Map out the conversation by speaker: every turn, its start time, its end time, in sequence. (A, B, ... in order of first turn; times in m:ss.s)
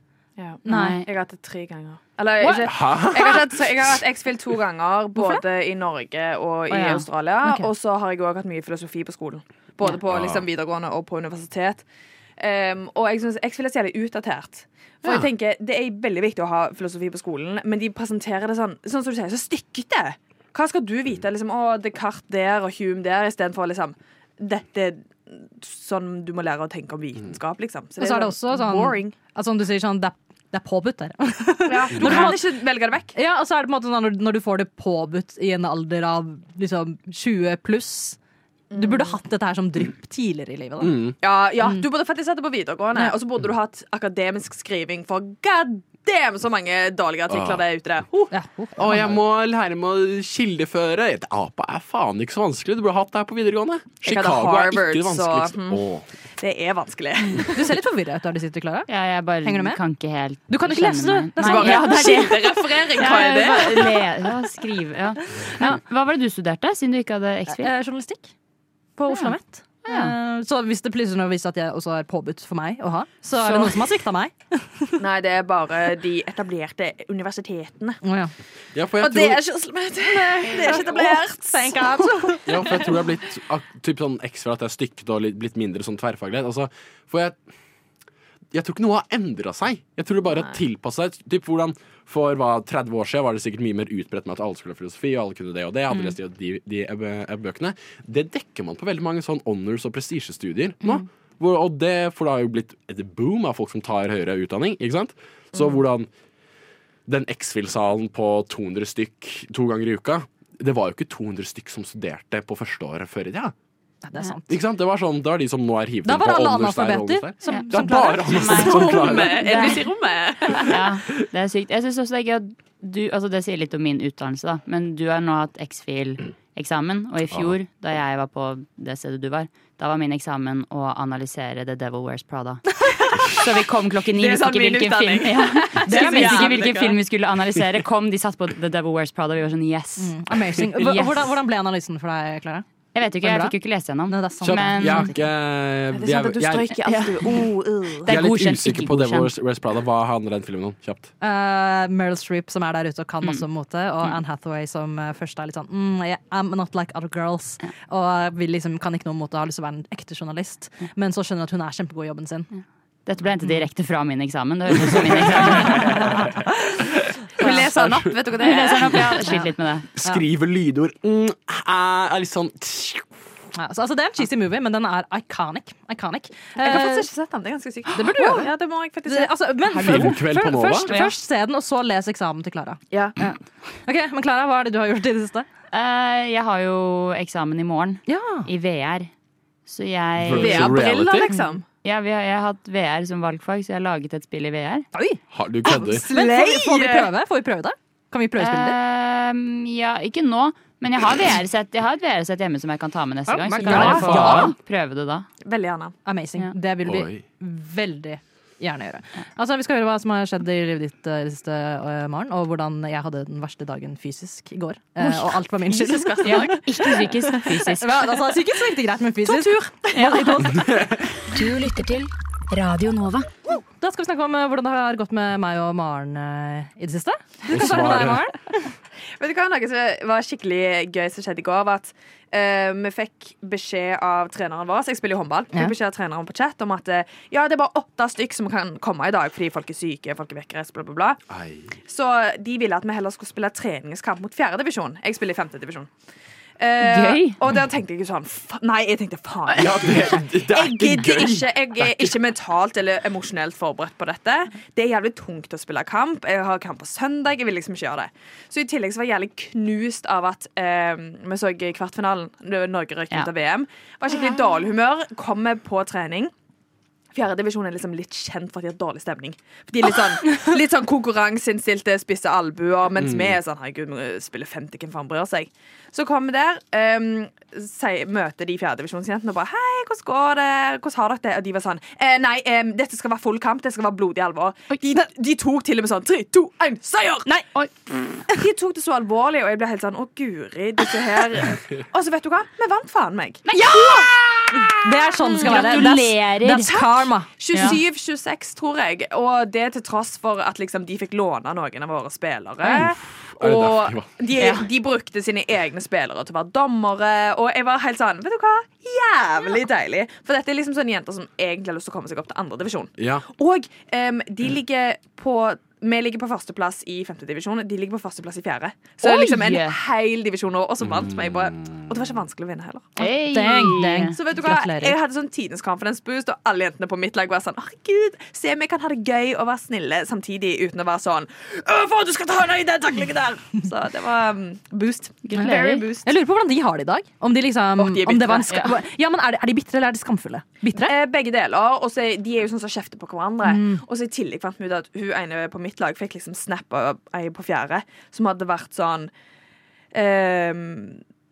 0:00.4-0:11.8 A
0:00.7-0:01.0 B
0:00.7-0:01.1 C
0:02.4-0:04.0 D
0:06.7-0:07.1 C
0:10.1-0:10.4 D
0:12.4-0:29.2 A
0:28.0-0:32.4 B
0:31.7-0:33.2 A
0:32.1-0:32.3 C
0:33.2-0:38.2 B
0:38.7-0:39.2 A
0:38.8-0:41.0 B
0:40.8-0:41.2 D
0:41.2-0:48.3 A
0:47.3-0:47.6 D
0:48.3-0:49.1 B
0:48.8-0:56.1 D
0:54.0-0:55.8 A
0:56.4-0:57.7 A
0:57.4-0:58.9 B
0:58.9-1:07.7 C
0:59.4-0:59.8 B
1:00.5-1:02.0 B
1:01.4-1:04.0 A
1:05.4-1:05.8 B
1:07.5-1:08.3 B
1:09.0-1:15.0 B
1:09.1-1:09.4 C
1:09.9-1:10.1 C
1:13.4-1:13.8 C
1:15.0-1:18.0 A
1:18.0-1:18.3 B
1:18.8-1:19.4 D
1:19.0-1:22.4 A
1:20.1-1:22.8 B
1:22.5-1:27.4 D
1:28.5-1:46.1 D
1:47.1-1:53.5 D
1:54.0-1:54.5 B
1:54.5-1:59.6 D
1:56.0-1:58.6 B
1:57.5-1:59.9 C
1:58.4-2:00.8 A
1:59.4-1:59.8 B
2:00.6-2:21.3 C
2:14.2-2:17.0 A
2:15.9-2:16.7 B
2:20.0-2:22.6 B
2:23.0-2:25.1 C
2:23.2-2:23.6 B
2:24.1-2:25.2 B
2:24.4-2:26.8 D
2:25.9-2:28.1 A
2:26.9-2:27.5 C
2:28.0-2:29.3 C
2:28.1-2:31.1 D
2:31.2-2:42.5 B
2:42.5-2:46.3 C
2:44.8-2:46.2 D
2:47.4-2:49.4 A
2:47.4-2:48.3 D
2:48.4-2:49.9 C
2:49.0-2:49.5 B
2:49.9-2:53.1 D
2:53.6-2:57.1 B
2:56.6-2:59.3 A
2:57.9-2:58.5 B
2:59.1-3:05.5 B
2:59.7-3:00.9 D
2:59.8-3:00.1 C
3:00.9-3:01.2 C
3:05.7-3:09.1 C
3:08.1-3:08.5 B
3:09.7-3:10.7 C
3:10.2-3:11.3 D
3:10.3-3:11.6 A
3:11.8-3:14.9 C
3:14.9-3:18.8 B
3:15.3-3:16.0 D
3:15.6-3:17.1 A
3:18.4-3:25.3 C
3:23.3-3:24.5 B
3:23.6-3:24.4 A
3:23.6-3:24.5 D
3:25.4-3:26.0 A
3:26.0-3:40.6 B
3:26.8-3:27.2 D
3:35.0-3:37.0 A
3:36.2-3:38.2 C
3:39.3-3:40.4 A
3:39.9-3:40.2 C
3:40.5-3:41.0 D
3:41.3-3:43.3 E
3:43.8-3:48.6 B
3:47.5-3:48.2 D
3:49.2-4:01.2 A
4:01.3-4:01.7 D
4:01.9-4:05.9 A
4:06.6-4:26.3 A
4:06.8-4:07.4 C
4:09.5-4:12.2 D
4:27.1-4:47.3 A
4:33.0-4:33.4 D
4:47.3-4:47.7 B
4:48.3-4:56.0 A
4:53.5-4:54.3 C
4:54.7-4:57.3 B
4:55.4-4:56.7 C
4:56.6-5:22.9 A
4:57.5-4:57.8 C
5:02.8-5:04.1 D
5:04.4-5:04.7 C
5:13.0-5:13.2 D
5:19.0-5:19.8 C
5:20.8-5:21.8 D
5:23.0-5:24.2 C
5:23.0-5:25.0 B
5:24.2-5:36.1 A
5:35.2-5:35.8 C
5:35.4-5:40.9 B
5:37.8-5:38.7 A
5:40.8-5:49.1 A
5:43.4-5:43.8 B
5:49.9-5:51.0 A